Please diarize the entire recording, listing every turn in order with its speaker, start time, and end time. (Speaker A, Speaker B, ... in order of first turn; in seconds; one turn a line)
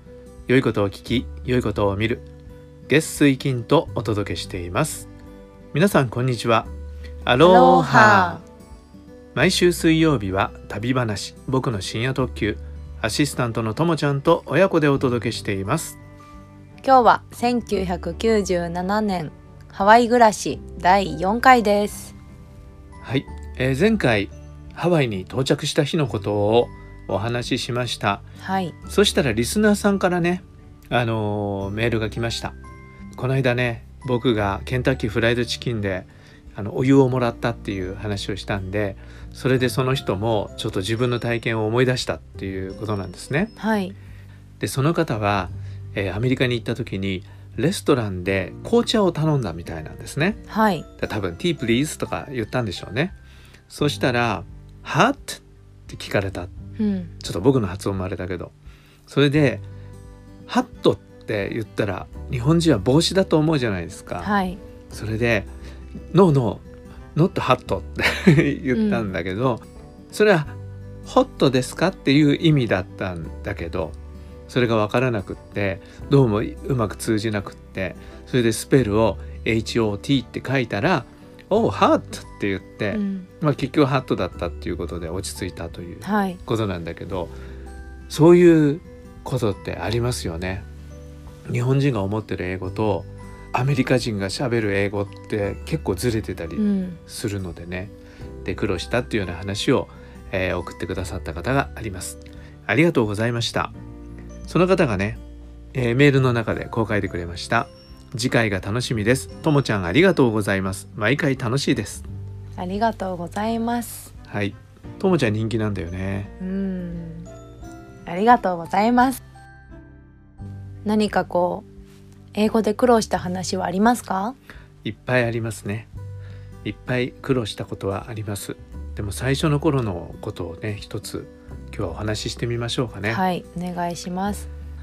Speaker A: 0.5-2.2
Speaker A: 2.9-5.1
Speaker A: 5.7-6.7
Speaker A: 7.2-8.4
Speaker B: 7.4-8.4
Speaker A: 9.3-16.0
Speaker B: 16.8-22.1
Speaker A: 23.0-28.2
Speaker B: 28.4-28.7
Speaker A: 28.9-32.5
Speaker A: 33.1-43.5
Speaker B: 43.6-44.0
Speaker A: 44.6-50.4
Speaker B: 50.5-50.9
Speaker A: 51.0-53.1
Speaker A: 53.7-56.5
Speaker B: 56.8-57.1
Speaker A: 57.2-58.5
Speaker A: 59.1-59.6
Speaker A: 60.5-64.3
Speaker B: 64.2-64.6
Speaker A: 64.9-65.5
Speaker A: 66.1-74.0
Speaker B: 68.7-69.1
Speaker A: 74.5-87.3
Speaker B: 82.9-83.3
Speaker B: 86.0-86.4
Speaker A: 88.1-90.6
Speaker A: 91.5-97.9
Speaker B: 96.6-97.0
Speaker A: 98.4-103.7
Speaker A: 104.5-105.2
Speaker A: 105.7-112.1
Speaker B: 112.6-114.1
Speaker A: 114.3-116.3
Speaker B: 116.4-117.3
Speaker B: 118.0-119.2
Speaker B: 120.8-121.7
Speaker B: 122.3-124.4
Speaker A: 124.8-125.9
Speaker A: 126.6-133.2
Speaker B: 133.1-134.5